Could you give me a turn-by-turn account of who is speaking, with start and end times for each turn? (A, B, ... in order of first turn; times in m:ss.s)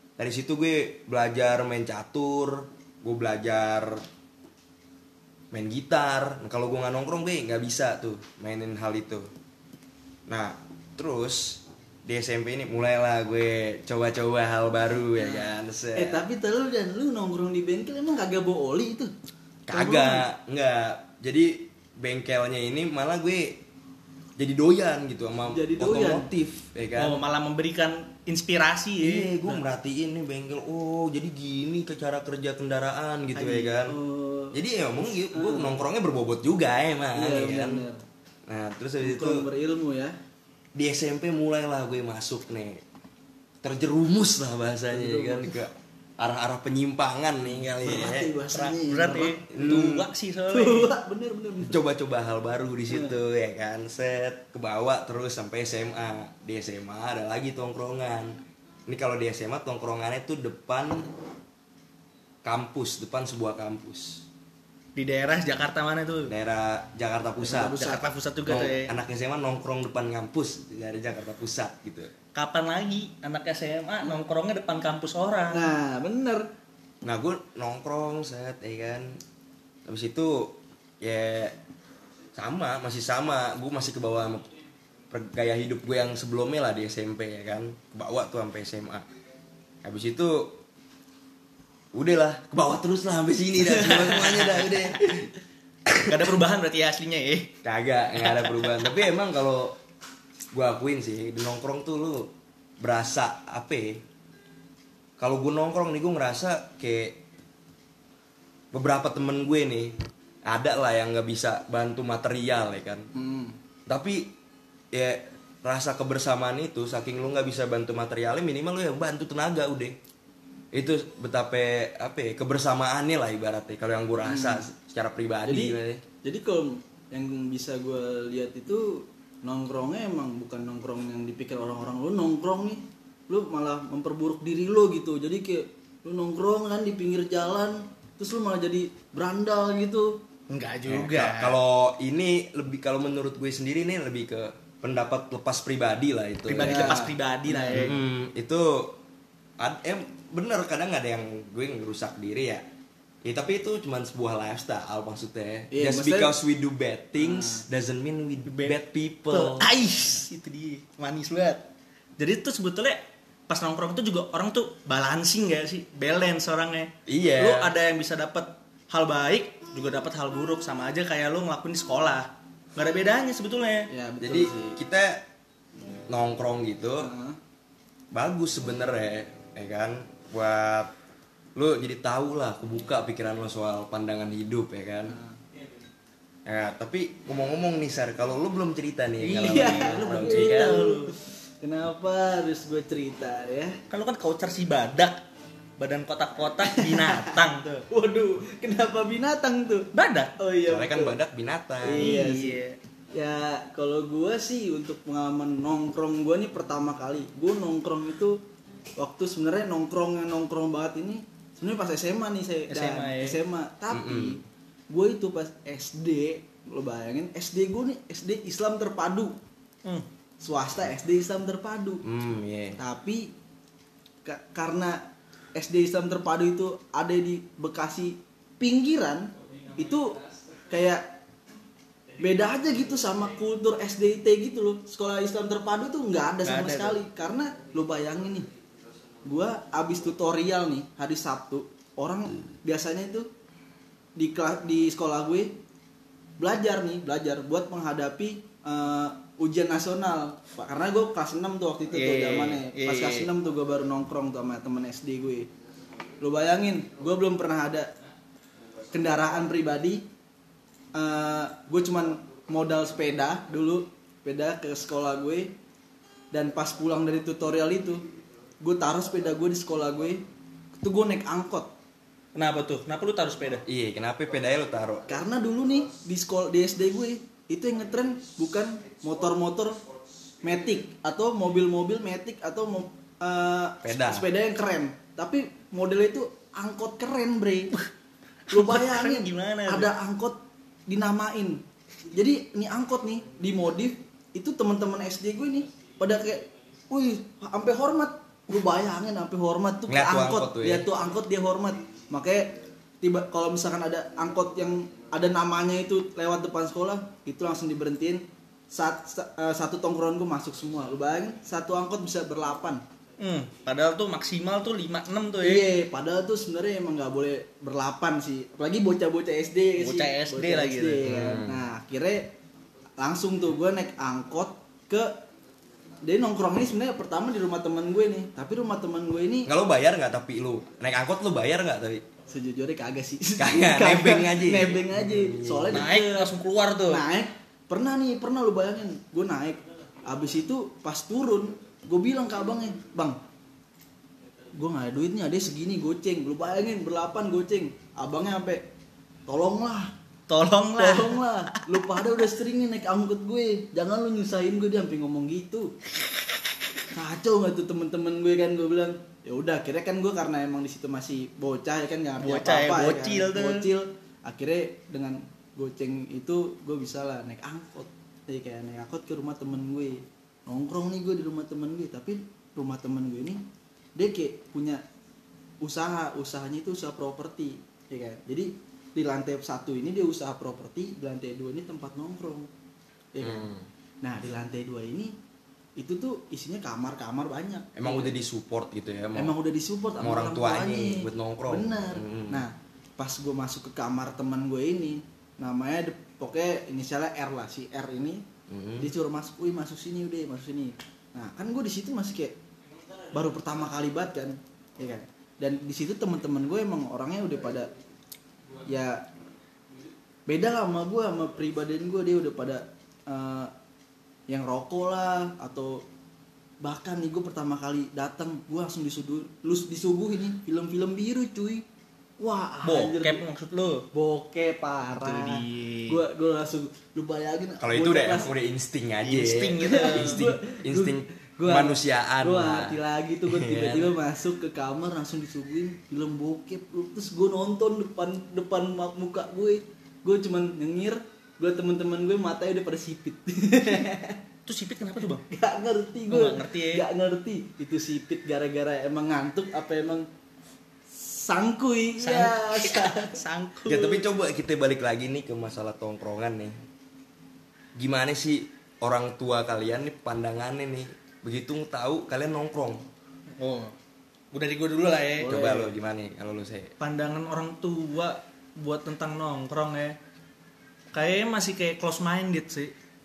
0:00.2-0:04.0 A
0:05.5-0:09.3 A
0:10.3-0:16.2 A
0:15.0-0:19.1 B
0:19.7-0:23.6 A
0:19.7-0:20.3 B
0:24.4-0:27.2 A
0:25.5-0:26.7 B
0:27.0-0:29.6 C
0:29.0-0:34.0 A
0:33.4-0:35.8 B
0:34.5-0:37.9 A
0:37.1-0:38.0 B
0:38.5-0:39.5 A
0:39.0-0:40.2 B
0:40.8-0:42.8 A
0:43.6-0:48.3 A
0:44.9-0:45.6 B
0:47.8-0:49.9 B
0:48.5-0:50.9 C
0:49.5-0:50.1 A
0:50.5-0:51.8 B
0:51.6-0:58.4 A
0:52.9-0:53.2 B
0:58.9-1:01.1 A
1:02.4-1:04.3 A
1:05.0-1:06.3 C
1:06.3-1:12.1 A
1:07.4-1:08.1 B
1:07.8-1:09.0 C
1:12.4-1:15.7 C
1:15.5-1:16.5 B
1:17.0-1:19.2 A
1:19.9-1:21.6 A
1:22.3-1:24.5 A
1:25.1-1:29.1 A
1:29.8-1:30.6 A
1:31.9-1:35.3 A
1:34.0-1:34.9 C
1:35.9-1:36.4 A
1:36.0-1:37.5 C
1:37.6-1:39.8 A
1:38.2-1:39.0 C
1:40.5-1:44.0 A
1:45.2-1:47.2 A
1:48.7-1:53.1 A
1:53.1-1:53.6 B
1:53.9-1:54.3 A
1:54.9-2:00.0 A
2:00.7-2:06.0 A
2:04.2-2:04.7 B
2:05.4-2:20.2 B
2:20.5-2:21.6 C
2:20.9-2:27.0 A
2:26.5-2:28.0 C
2:26.6-2:27.9 B
2:27.7-2:29.0 A
2:29.6-2:32.7 A
2:33.2-2:39.7 A
2:35.7-2:36.4 B
2:37.2-2:37.6 B
2:38.5-2:38.8 C
2:39.3-2:41.6 C
2:42.2-2:53.9 C
2:47.1-2:47.7 A
2:53.9-2:54.8 B
2:54.2-2:55.2 A
2:56.1-2:57.1 A
2:57.0-2:57.4 B
2:58.1-3:00.9 A
3:01.6-3:05.2 A
3:05.1-3:05.4 B
3:06.5-3:10.9 A
3:09.2-3:11.1 C
3:09.3-3:13.8 B
3:13.9-3:15.2 C
3:15.8-3:17.8 C
3:16.7-3:17.3 B
3:17.9-3:21.2 B
3:19.9-3:20.3 C
3:20.7-3:22.2 A
3:21.8-3:22.6 B
3:22.0-3:22.8 C
3:23.1-3:28.4 B
3:29.0-3:39.4 B
3:32.7-3:33.4 C
3:33.9-3:34.4 A
3:40.4-3:42.0 B
3:42.0-3:42.8 A
3:42.8-3:43.3 B
3:44.2-3:45.0 B
3:45.6-3:51.2 B
3:52.2-3:58.5 B
3:56.4-3:57.0 C
3:59.2-4:03.3 B
4:04.2-4:05.6 B
4:06.4-4:15.5 B
4:11.9-4:13.3 C
4:16.2-4:17.9 B
4:18.9-4:20.1 B
4:20.9-4:25.6 B
4:26.3-4:30.2 B
4:30.8-4:31.7 B
4:32.4-4:33.6 C
4:33.7-4:35.1 A
4:35.1-4:39.8 B
4:40.4-4:47.8 B
4:43.8-4:44.3 A
4:48.5-4:49.9 C
4:48.5-5:12.8 B
4:59.9-5:00.9 A
5:13.2-5:15.7 C
5:15.4-5:22.4 B
5:19.8-5:21.0 C
5:21.0-5:21.7 A
5:23.0-5:25.2 B
5:26.0-5:29.5 B
5:29.4-5:32.0 A
5:32.3-5:36.3 B
5:33.4-5:35.9 A
5:35.7-5:37.0 C
5:36.9-5:43.2 B
5:44.5-5:48.7 B
5:49.3-5:49.9 B
5:50.3-5:52.2 C
5:50.8-5:55.7 B
5:56.9-6:13.4 B
6:02.2-6:03.7 C
6:14.0-6:14.8 B
6:15.6-6:22.5 B
6:23.1-6:23.5 B
6:23.2-6:23.7 A
6:24.0-6:25.1 B
6:25.8-6:28.2 B
6:27.8-6:29.4 A
6:29.2-6:38.2 B
6:30.0-6:32.5 A
6:38.5-6:38.9 A
6:38.8-6:42.4 B
6:43.1-6:47.7 B
6:48.6-6:49.1 B
6:50.3-6:53.5 B
6:54.3-6:55.8 B
6:56.6-7:01.6 B
7:02.2-7:03.2 B
7:02.6-7:03.9 C
7:03.9-7:08.3 B
7:04.9-7:06.0 C
7:07.6-7:13.9 A
7:09.0-7:10.3 C
7:09.6-7:24.2 B
7:24.5-7:25.3 C
7:25.3-7:30.1 B
7:26.1-7:26.8 C
7:30.9-7:33.2 B
7:32.0-7:34.0 C
7:33.6-7:36.6 A
7:37.8-7:42.8 A
7:43.4-7:43.7 C
7:44.3-7:45.4 C
7:45.2-7:45.7 B
7:45.2-7:46.7 A
7:46.8-7:50.0 C
7:50.9-7:52.7 C